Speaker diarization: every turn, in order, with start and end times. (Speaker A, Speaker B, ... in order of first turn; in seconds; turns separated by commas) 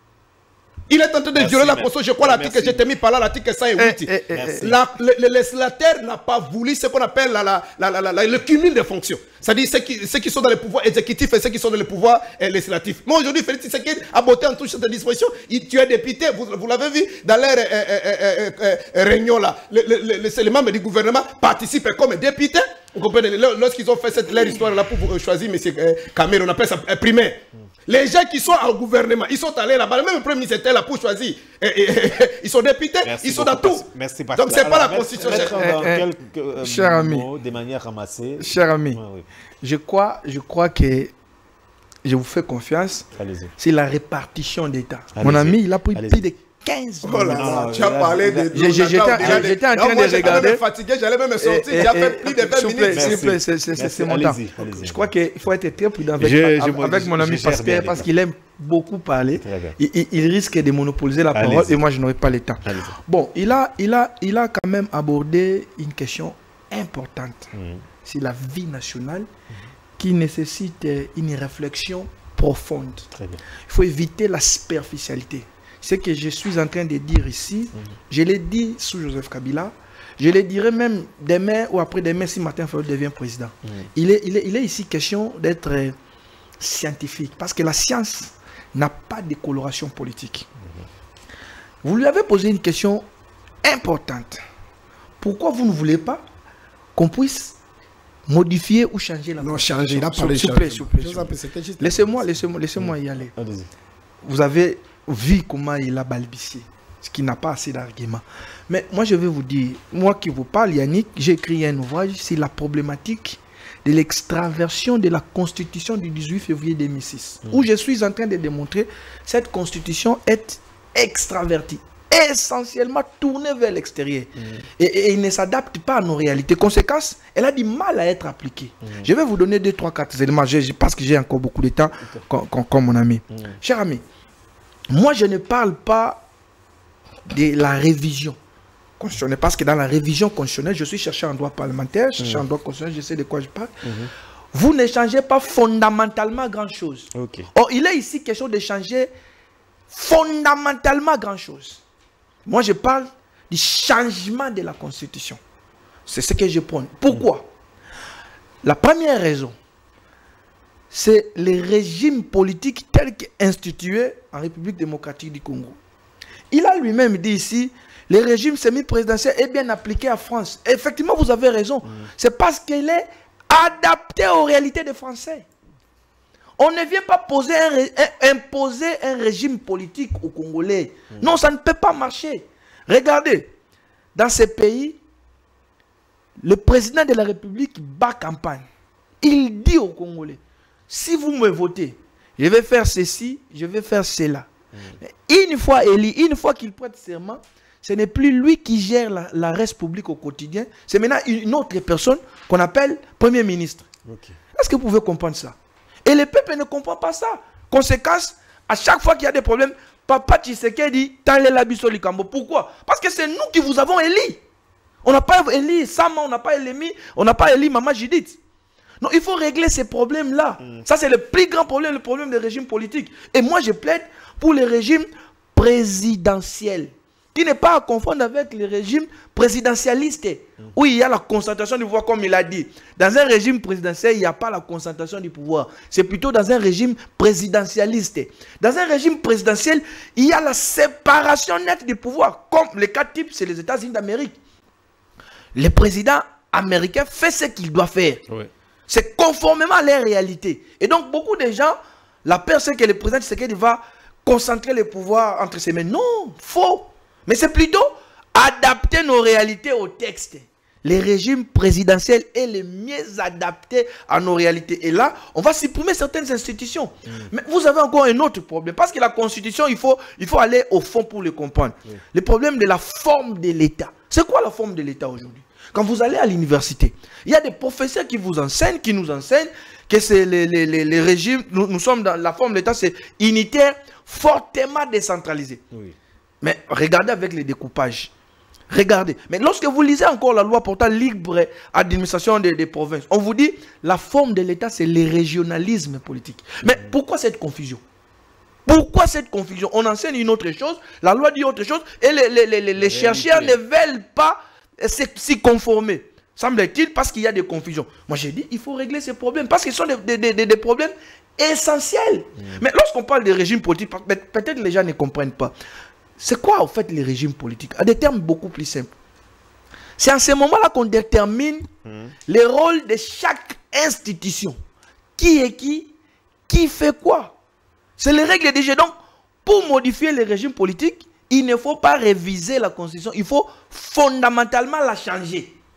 Speaker A: 0.9-35.6, Speaker B: 1.4-2.8, Speaker C: 3.8-4.7, Speaker B: 4.3-4.8, Speaker B: 33.0-39.3, Speaker C: 35.3-36.1, Speaker C: 36.6-37.3, Speaker C: 38.4-39.0, Speaker C: 39.6-41.1, Speaker C: 42.0-43.1, Speaker B: 43.1-43.5, Speaker C: 43.6-47.7, Speaker B: 45.1-46.2, Speaker A: 47.0-53.3, Speaker B: 47.1-49.5, Speaker C: 48.5-50.6, Speaker C: 51.4-67.5, Speaker B: 52.9-55.1, Speaker B: 56.2-58.1, Speaker B: 59.4-59.8, Speaker B: 61.4-61.8, Speaker B: 62.6-63.0, Speaker B: 67.5-67.8, Speaker C: 68.0-69.3, Speaker C: 70.0-73.1, Speaker B: 73.1-73.4, Speaker C: 73.7-86.0, Speaker C: 86.6-90.5, Speaker B: 90.6-90.9, Speaker C: 91.8-93.0, Speaker C: 93.6-94.4, Speaker C: 95.2-96.2, Speaker C: 97.0-97.5, Speaker C: 98.3-103.3, Speaker A: 99.4-102.2, Speaker B: 102.8-103.7, Speaker C: 104.2-134.0, Speaker B: 124.4-124.7, Speaker B: 128.8-129.1, Speaker B: 133.3-133.6, Speaker C: 134.9-136.2, Speaker C: 137.3-138.4, Speaker C: 139.0-143.7, Speaker B: 142.2-142.4, Speaker B: 143.8-144.1, Speaker C: 144.5-149.1, Speaker B: 147.1-147.5, Speaker C: 149.9-151.8, Speaker C: 152.5-155.4, Speaker C: 156.1-157.5, Speaker C: 158.6-159.6, Speaker C: 160.9-165.8, Speaker C: 166.5-175.4, Speaker C: 176.6-183.5, Speaker C: 184.2-185.0, Speaker C: 186.4-188.7, Speaker C: 189.2-194.5, Speaker C: 195.0-203.9, Speaker B: 204.1-204.4, Speaker C: 204.6-214.4, Speaker C: 215.0-218.4, Speaker C: 219.0-244.4, Speaker C: 245.6-248.2, Speaker C: 248.9-285.6, Speaker B: 267.1-267.3, Speaker C: 286.4-288.1, Speaker C: 288.7-297.8, Speaker B: 296.6-296.9, Speaker C: 298.7-315.5, Speaker B: 302.8-303.6, Speaker C: 316.2-318.9, Speaker C: 320.0-321.7, Speaker B: 321.9-322.1, Speaker C: 322.3-324.6, Speaker C: 325.2-325.9, Speaker C: 326.5-327.4, Speaker C: 328.0-328.9, Speaker C: 329.4-335.6